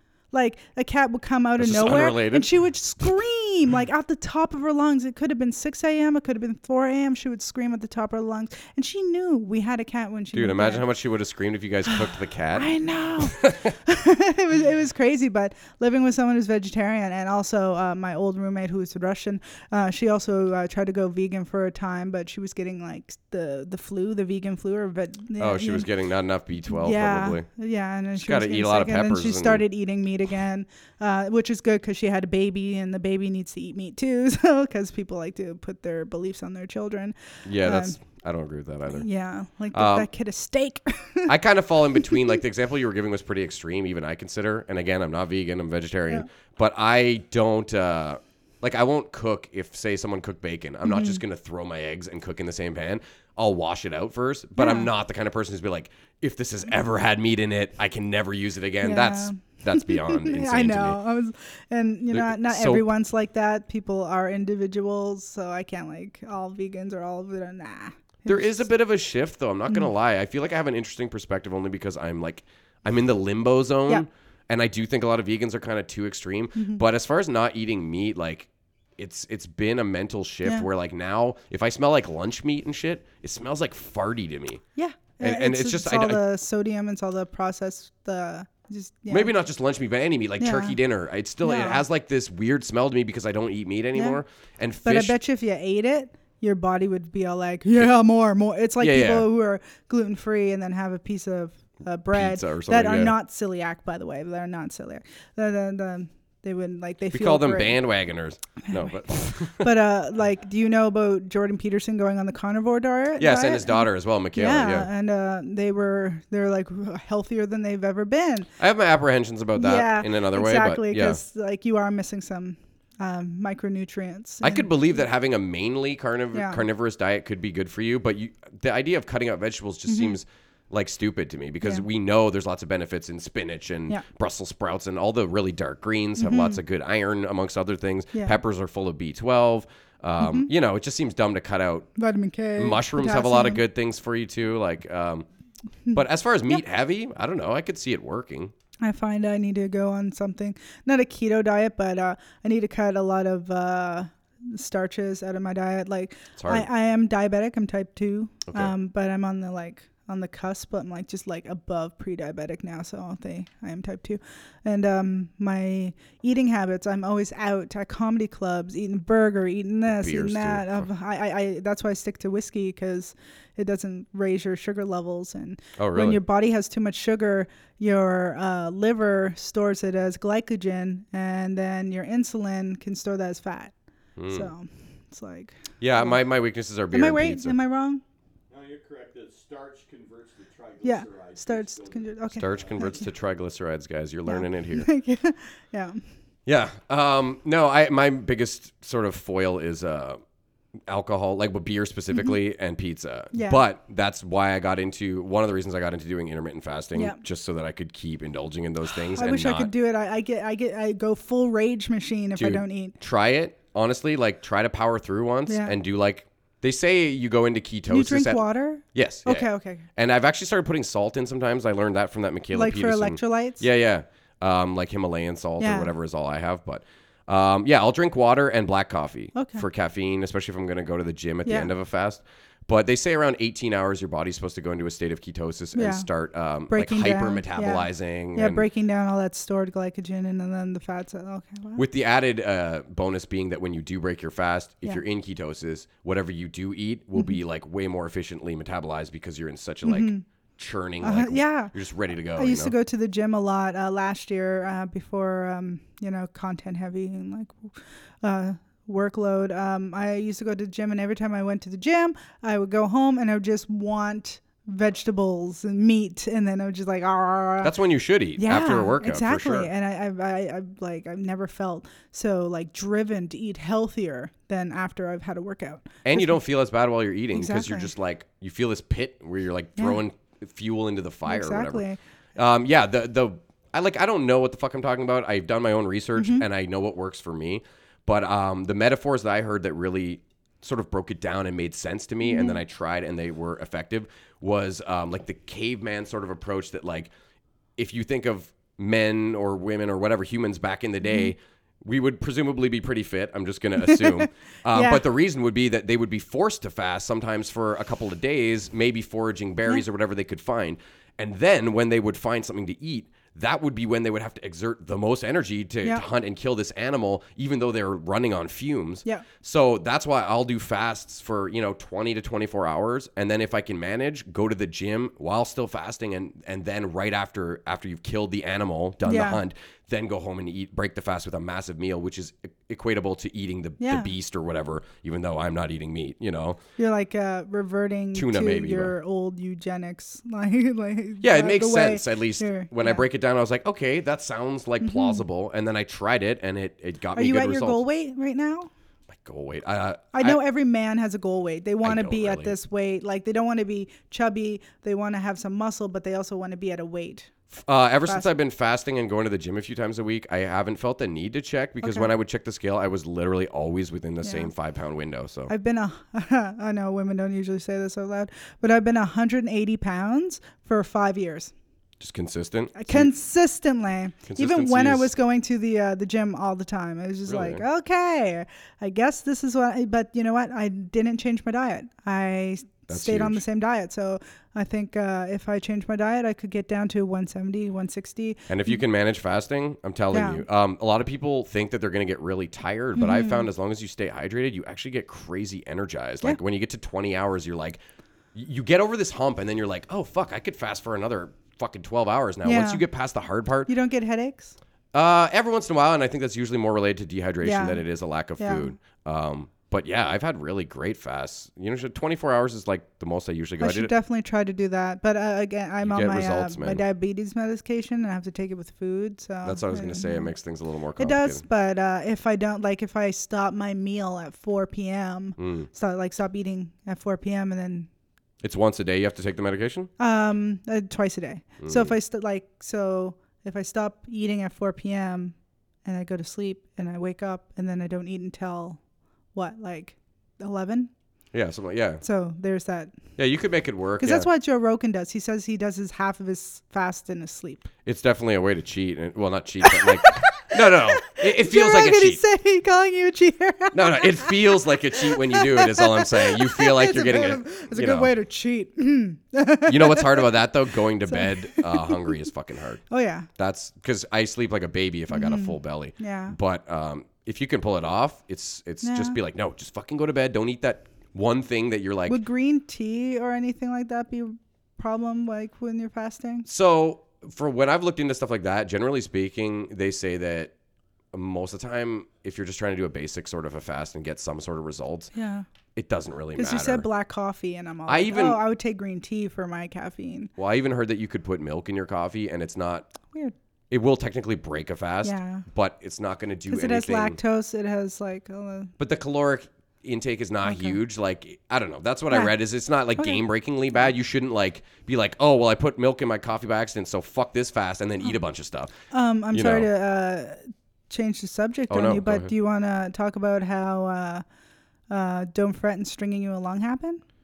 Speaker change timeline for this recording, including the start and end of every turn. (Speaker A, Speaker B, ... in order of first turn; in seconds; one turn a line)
Speaker A: 0.3-10.8
Speaker B: 1.6-2.5
Speaker B: 10.3-13.7
Speaker A: 12.5-25.9
Speaker B: 25.4-27.5
Speaker A: 26.7-38.0
Speaker B: 28.1-29.6
Speaker B: 37.5-39.0
Speaker A: 38.9-41.3
Speaker B: 39.7-40.1
Speaker B: 41.3-61.0
Speaker A: 42.0-42.2
Speaker A: 50.8-51.2
Speaker A: 54.5-54.9
Speaker A: 58.8-68.7
Speaker B: 62.1-62.9
Speaker B: 68.3-84.6
Speaker A: 76.5-76.8
Speaker A: 84.7-89.3
Speaker B: 85.2-86.2
Speaker B: 89.1-95.2
Speaker A: 90.4-90.8
Speaker A: 91.4-91.8
Speaker A: 94.8-107.8
Speaker B: 98.8-99.3
Speaker B: 102.1-103.1
Speaker B: 107.1-109.7
Speaker A: 109.6-118.5
Speaker B: 113.2-114.9
Speaker B: 118.6-121.2
Speaker A: 119.5-124.7
Speaker B: 124.4-141.9
Speaker A: 126.3-126.6
Speaker A: 129.9-130.2
Speaker A: 136.2-136.6
Speaker A: 140.2-140.5
Speaker A: 142.0-143.6
Speaker B: 142.6-145.2
Speaker A: 145.8-146.6
Speaker B: 145.9-148.5
Speaker A: 148.8-183.7
Speaker B: 156.4-156.7
Speaker B: 158.5-158.7
Speaker B: 169.9-170.9
Speaker B: 175.8-176.2
Speaker B: 184.2-184.5
Speaker A: 184.3-186.2
Speaker B: 185.8-187.6
Speaker A: 186.9-188.0
Speaker C: 188.5-193.1
Speaker A: 190.8-193.0
Speaker B: 192.3-194.9
Speaker A: 194.2-196.0
Speaker B: 196.4-200.2
Speaker B: 200.9-209.7
Speaker A: 203.3-203.6
Speaker A: 206.9-207.2
Speaker A: 209.1-212.9
Speaker B: 212.3-218.4
Speaker A: 215.5-215.7
Speaker A: 217.9-219.8
Speaker B: 218.9-238.7
Speaker A: 222.5-223.6
Speaker A: 225.6-225.9
Speaker A: 229.3-229.6
Speaker A: 231.4-231.7
Speaker A: 235.7-236.1
Speaker A: 236.7-241.8
Speaker B: 241.8-252.7
Speaker A: 249.8-250.2
Speaker A: 251.0-251.7
Speaker A: 252.3-267.7
Speaker B: 267.6-269.7
Speaker A: 268.4-276.3
Speaker B: 276.0-281.8
Speaker A: 277.3-277.9
Speaker A: 281.2-282.0
Speaker B: 282.4-297.1
Speaker A: 286.1-286.4
Speaker A: 292.2-292.6
Speaker B: 297.8-336.6
Speaker A: 301.0-301.3
Speaker A: 303.8-305.0
Speaker A: 329.0-329.4
Speaker A: 333.8-334.1
Speaker A: 336.8-343.0
Speaker B: 338.1-338.9
Speaker B: 341.2-347.8
Speaker A: 344.8-345.2
Speaker A: 347.1-348.7
Speaker B: 349.1-350.4
Speaker A: 350.1-357.3
Speaker B: 351.8-352.5
Speaker B: 357.5-365.5
Speaker A: 361.8-362.1
Speaker A: 364.2-364.5
Speaker A: 365.5-371.5
Speaker B: 372.0-373.1
Speaker A: 372.7-388.8
Speaker B: 374.3-375.1
Speaker B: 377.3-377.6
Speaker B: 382.9-383.4
Speaker B: 388.5-397.8
Speaker A: 390.1-390.4
Speaker A: 392.9-393.5
Speaker B: 398.3-403.7
Speaker A: 402.4-402.8
Speaker A: 403.7-404.6
Speaker B: 404.9-413.9
Speaker A: 407.4-407.8
Speaker A: 408.4-408.7
Speaker A: 413.6-420.3
Speaker B: 415.8-416.8
Speaker B: 419.4-421.4
Speaker A: 421.0-427.9
Speaker B: 425.4-425.7
Speaker B: 428.4-429.9
Speaker A: 430.0-438.8
Speaker B: 431.6-431.9
Speaker A: 439.3-440.9
Speaker B: 441.3-442.0
Speaker A: 442.0-443.0
Speaker B: 443.2-444.3
Speaker A: 444.0-447.7
Speaker B: 447.8-452.2
Speaker A: 449.6-460.4
Speaker B: 453.7-458.1
Speaker B: 459.7-462.8
Speaker A: 461.0-462.2
Speaker A: 462.9-463.3
Speaker B: 463.4-472.2
Speaker A: 465.1-466.4
Speaker A: 468.8-469.2
Speaker A: 472.1-476.5
Speaker B: 476.4-480.5
Speaker B: 481.1-485.1
Speaker A: 485.1-485.4
Speaker B: 485.7-486.9
Speaker A: 486.4-490.3
Speaker B: 487.9-488.4
Speaker B: 490.4-492.9
Speaker B: 493.7-497.2
Speaker A: 495.0-495.4
Speaker A: 496.5-498.7
Speaker B: 498.8-508.7
Speaker A: 500.4-500.8
Speaker A: 502.9-503.2
Speaker A: 508.9-514.2
Speaker B: 509.3-509.7
Speaker B: 511.7-512.3
Speaker A: 514.9-517.0